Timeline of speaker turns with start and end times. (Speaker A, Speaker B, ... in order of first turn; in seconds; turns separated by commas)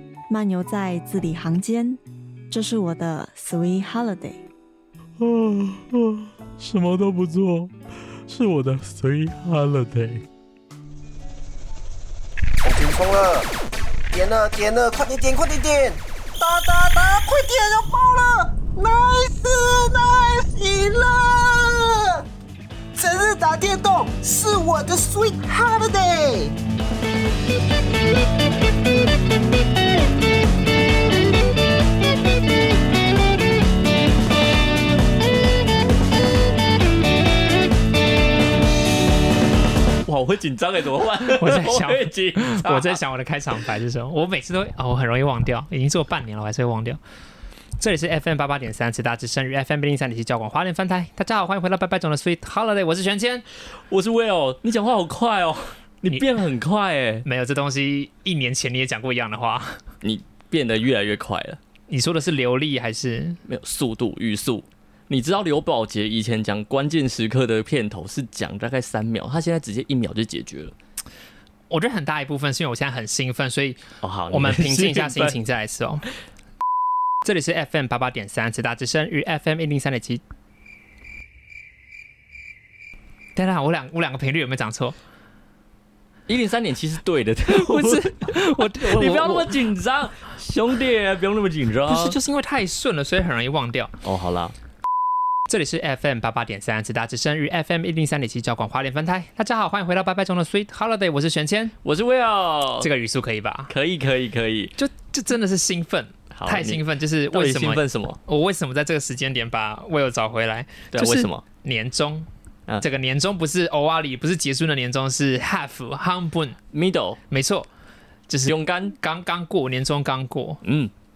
Speaker A: 0.3-2.0, Speaker A: 2.5-4.4, Speaker B: 5.2-7.7, Speaker B: 8.3-10.2, Speaker C: 12.6-13.5, Speaker C: 14.1-22.2, Speaker C: 22.9-26.5, Speaker D: 40.0-43.0, Speaker E: 41.2-47.0, Speaker E: 47.8-53.4, Speaker D: 53.7-57.2, Speaker E: 57.2-59.8, Speaker D: 60.0-61.6, Speaker E: 61.9-63.4, Speaker D: 63.4-70.7, Speaker E: 71.7-76.1, Speaker D: 74.0-75.3, Speaker E: 77.2-80.2, Speaker E: 83.3-85.0, Speaker D: 86.3-92.2, Speaker E: 87.5-89.5, Speaker E: 91.8-93.9, Speaker D: 94.0-94.5, Speaker E: 95.5-101.7, Speaker D: 101.8-102.9, Speaker E: 102.8-103.7, Speaker D: 103.7-104.7, Speaker E: 104.8-112.3, Speaker D: 106.3-108.2, Speaker D: 110.9-111.4, Speaker E: 112.8-116.6, Speaker D: 116.7-117.2, Speaker E: 117.3-117.7, Speaker E: 118.3-120.6, Speaker D: 118.5-118.9, Speaker D: 120.6-120.9